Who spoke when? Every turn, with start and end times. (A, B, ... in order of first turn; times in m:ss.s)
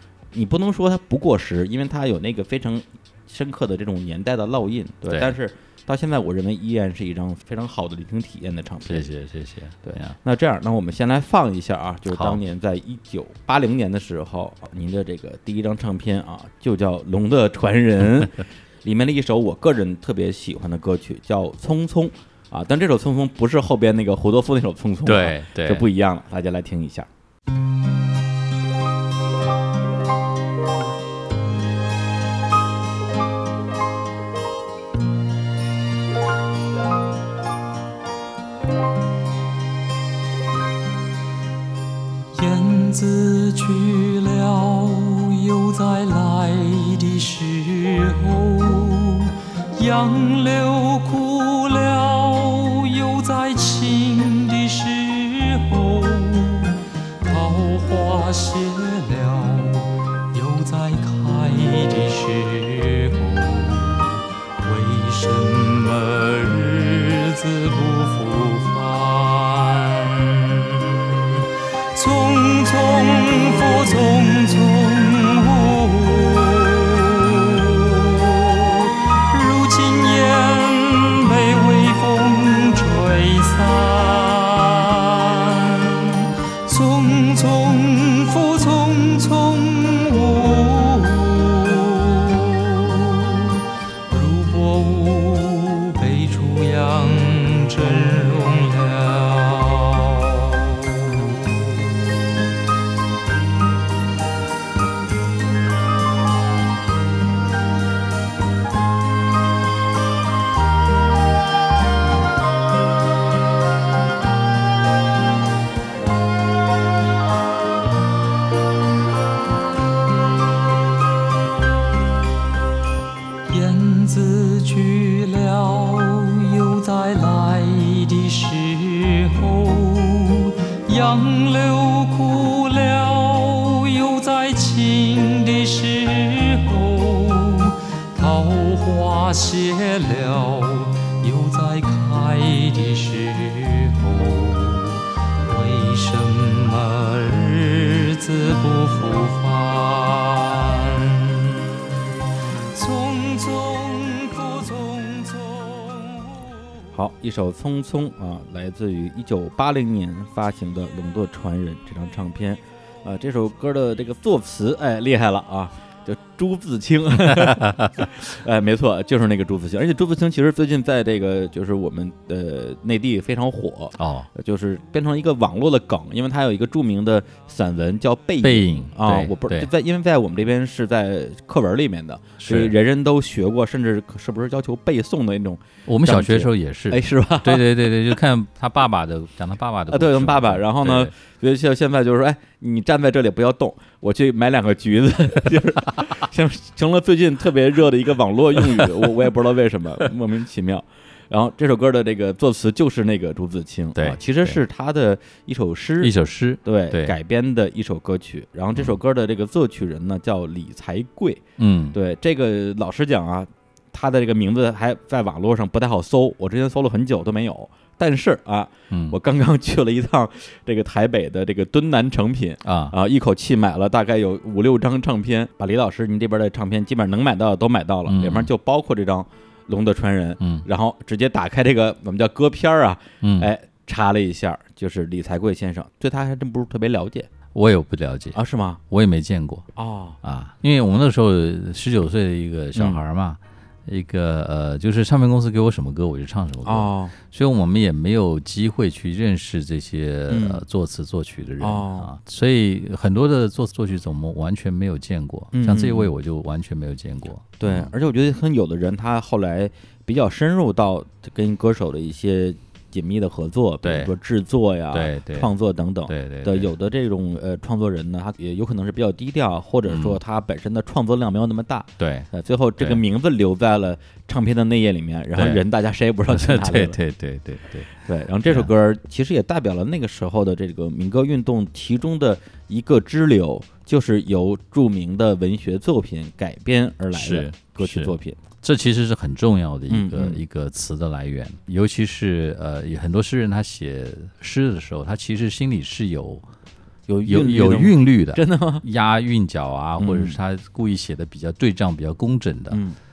0:00.3-0:09.1 A
0:05.1-0:05.4 B
0:08.8-0:10.2 B
0:09.8-0:27.1 A
0:12.1-0:12.4 B
0:25.1-0:25.9 B
0:42.3-1:11.3 C
1:11.9-1:41.6 C
2:03.5-2:31.5 C
2:32.7-2:36.3 C
2:36.9-3:07.8 A
2:47.2-2:48.1 B
2:54.0-2:54.3 B
2:58.4-2:59.7 B
3:02.4-3:02.8 B
3:05.9-3:11.1 B
3:09.9-3:31.4 A
3:15.9-3:16.2 B
3:24.0-3:24.6 B
3:26.0-3:27.2 B
3:31.6-3:32.0 B
3:31.9-3:57.3 A
3:38.9-3:39.2 B
3:42.6-3:43.0 B
3:48.1-3:48.5 B
3:50.4-3:50.7 B
3:53.2-3:53.5 B
3:57.5-3:58.4 B
3:58.3-3:58.8 A
3:58.9-3:59.7 B
3:59.8-4:00.2 A
4:00.2-4:17.9 B
4:02.8-4:03.0 A
4:06.6-4:07.2 A
4:10.3-4:10.6 A
4:11.6-4:12.1 A
4:15.5-4:16.1 A
4:17.6-4:37.0 A
4:23.8-4:24.1 B
4:24.9-4:25.5 B
4:26.1-4:26.7 B
4:29.9-4:30.2 B
4:32.0-4:32.3 B
4:35.4-4:35.6 B
4:36.3-4:37.9 B
4:38.0-4:48.4 A
4:38.4-4:38.7 B
4:47.1-4:56.4 B
4:49.9-4:50.4 A
4:57.1-4:58.8 A
4:57.3-5:02.8 B
5:00.0-5:00.4 A
5:02.7-5:03.0 A